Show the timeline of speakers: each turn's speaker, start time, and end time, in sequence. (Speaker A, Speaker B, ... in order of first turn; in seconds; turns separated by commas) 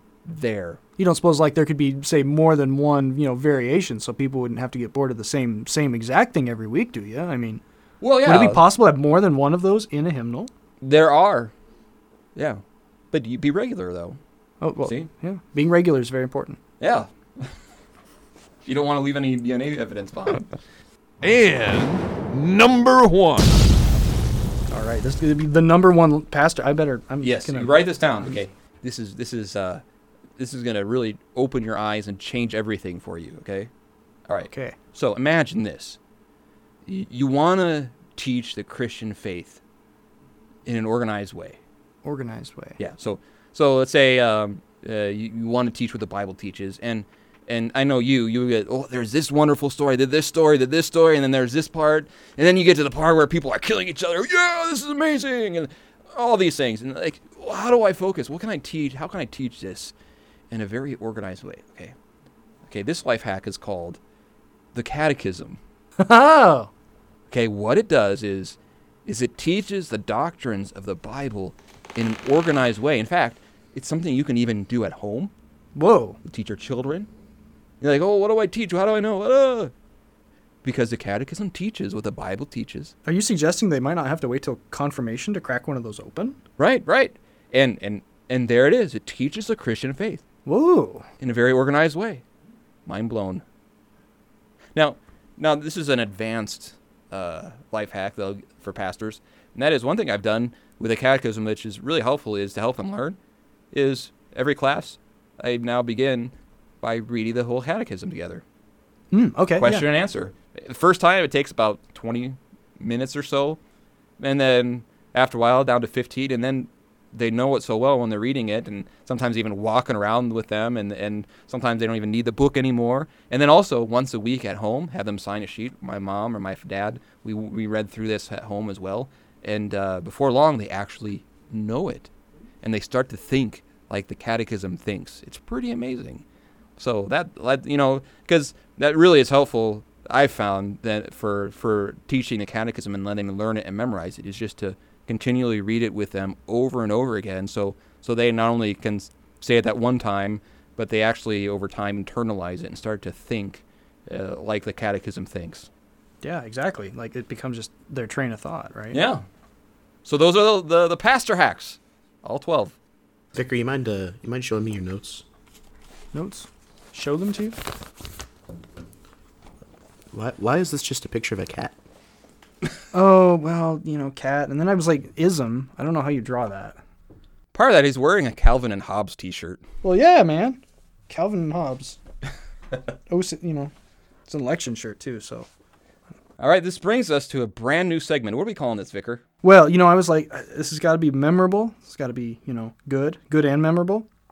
Speaker A: 0.3-0.8, Speaker B: 1.0-7.6, Speaker A: 8.0-8.6, Speaker B: 8.2-10.5, Speaker A: 10.8-11.5, Speaker A: 12.4-12.6, Speaker A: 13.1-14.2, Speaker B: 14.6-16.6, Speaker A: 16.8-17.5, Speaker A: 18.7-20.5, Speaker C: 21.2-23.6, Speaker B: 24.7-27.7, Speaker A: 27.2-29.8, Speaker A: 30.4-33.7, Speaker A: 34.3-36.0, Speaker B: 34.5-34.8, Speaker A: 36.9-39.6, Speaker A: 40.7-41.6, Speaker B: 42.0-42.8, Speaker A: 42.8-59.9, Speaker A: 60.5-61.9, Speaker A: 62.7-64.0, Speaker A: 64.7-65.6, Speaker B: 66.0-66.7, Speaker A: 67.3-75.3, Speaker B: 75.8-76.2, Speaker A: 76.3-77.1, Speaker A: 77.8-79.7, Speaker A: 80.6-82.9, Speaker B: 83.0-86.4, Speaker A: 86.6-90.2, Speaker B: 90.5-91.1, Speaker A: 91.2-92.2, Speaker A: 92.9-93.4, Speaker A: 94.8-103.2, Speaker A: 103.7-108.4, Speaker B: 109.1-109.9, Speaker A: 109.6-113.6, Speaker A: 114.2-132.1, Speaker A: 132.6-136.2, Speaker A: 136.8-155.7, Speaker B: 156.2-159.0, Speaker A: 158.9-159.2, Speaker A: 160.1-162.7, Speaker D: 163.3-165.2, Speaker B: 166.1-167.6, Speaker D: 170.1-171.8, Speaker B: 172.9-176.8, Speaker A: 177.5-179.6, Speaker B: 179.8-182.0, Speaker B: 183.1-183.7, Speaker B: 184.3-185.5, Speaker A: 186.4-189.2, Speaker B: 189.4-194.1